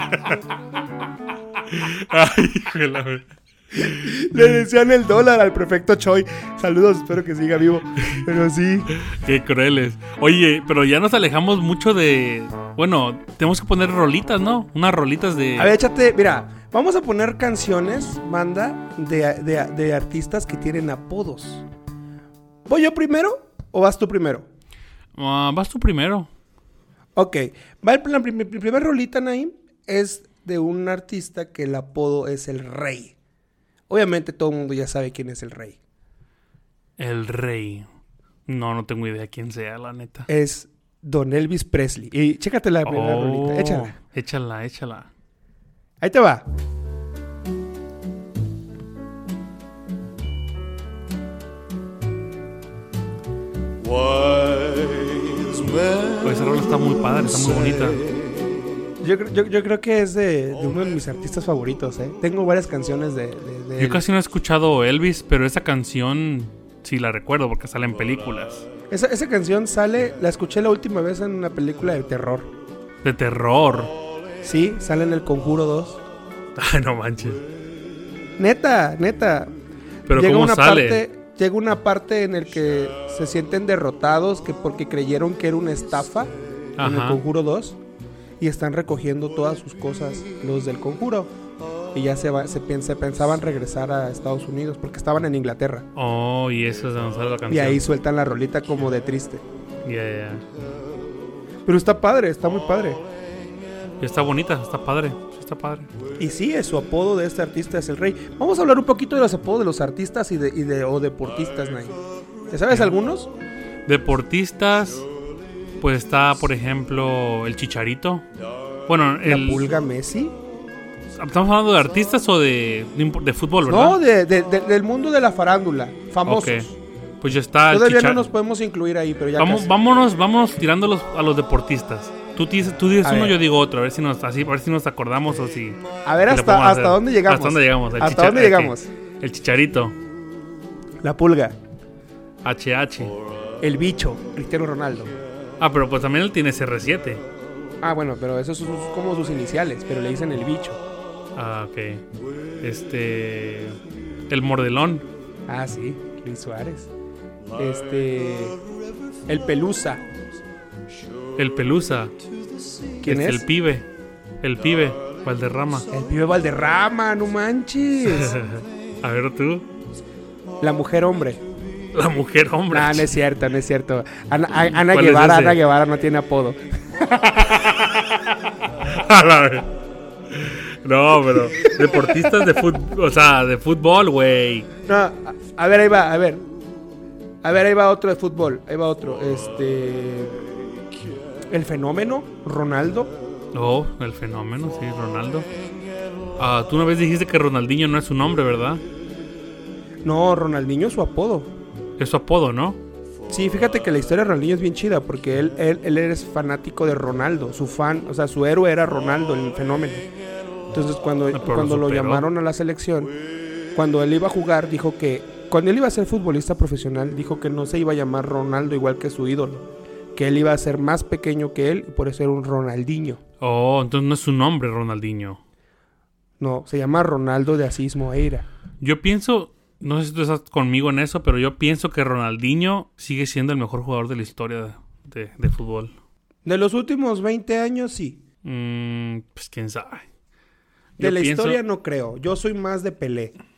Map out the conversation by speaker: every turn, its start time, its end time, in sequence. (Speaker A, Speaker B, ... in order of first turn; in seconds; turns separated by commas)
Speaker A: 1.7-3.3, Speaker B: 3.8-8.9, Speaker A: 8.9-15.7, Speaker B: 15.6-21.6, Speaker B: 22.7-24.5, Speaker A: 25.1-26.3, Speaker B: 27.2-33.1, Speaker B: 33.9-35.8, Speaker A: 37.0-37.9, Speaker A: 38.5-40.3, Speaker B: 40.3-44.0, Speaker A: 42.9-45.1, Speaker B: 46.0-46.5, Speaker A: 56.2-58.0, Speaker B: 59.0-64.0, Speaker A: 63.8-68.7, Speaker B: 68.9-72.5, Speaker A: 73.0-73.9, Speaker B: 74.4-76.0, Speaker A: 76.6-77.4, Speaker B: 78.4-79.5, Speaker A: 80.1-81.0, Speaker B: 80.1-87.8, Speaker A: 86.8-87.2, Speaker B: 88.4-91.3, Speaker B: 91.9-95.9, Speaker A: 96.0-97.8, Speaker B: 97.5-99.4, Speaker A: 99.8-100.4, Speaker B: 101.7-103.0, Speaker A: 104.0-105.9, Speaker B: 106.2-113.3, Speaker A: 112.7-113.0, Speaker A: 113.9-115.0, Speaker A: 115.8-118.3, Speaker A: 118.9-119.6, Speaker B: 119.2-120.3, Speaker A: 121.2-124.0, Speaker B: 123.7-126.8, Speaker A: 126.3-126.7, Speaker A: 127.2-128.2, Speaker B: 127.7-129.7, Speaker A: 129.4-140.0, Speaker B: 133.0-133.4, Speaker B: 136.1-138.9, Speaker B: 141.0-141.6, Speaker A: 142.4-143.2, Speaker B: 143.6-145.2, Speaker A: 145.6-147.2, Speaker B: 147.8-150.8, Speaker A: 151.3-152.0, Speaker A: 152.6-155.1, Speaker B: 155.5-156.9, Speaker B: 157.6-158.6, Speaker B: 159.3-160.1, Speaker A: 161.4-162.1, Speaker B: 163.0-163.5, Speaker A: 163.0-163.9, Speaker A: 164.4-165.9, Speaker B: 165.9-168.4, Speaker A: 168.1-169.7, Speaker B: 170.6-171.4, Speaker A: 171.9-173.1, Speaker B: 172.7-177.6, Speaker A: 174.8-175.6, Speaker A: 177.6-178.2, Speaker A: 178.8-179.7, Speaker A: 180.3-184.7, Speaker B: 181.5-182.3, Speaker B: 184.9-186.4, Speaker B: 187.4-190.4, Speaker B: 191.5-193.1, Speaker A: 193.5-195.5, Speaker A: 196.4-198.8, Speaker B: 200.0-201.5, Speaker A: 202.0-202.8, Speaker B: 203.3-210.1, Speaker B: 210.7-213.1, Speaker A: 211.3-212.3, Speaker B: 213.7-223.2, Speaker A: 223.4-225.4, Speaker B: 226.4-228.5, Speaker A: 228.8-235.9, Speaker B: 236.4-238.2, Speaker A: 238.4-240.1, Speaker A: 241.0-241.6, Speaker B: 241.0-243.3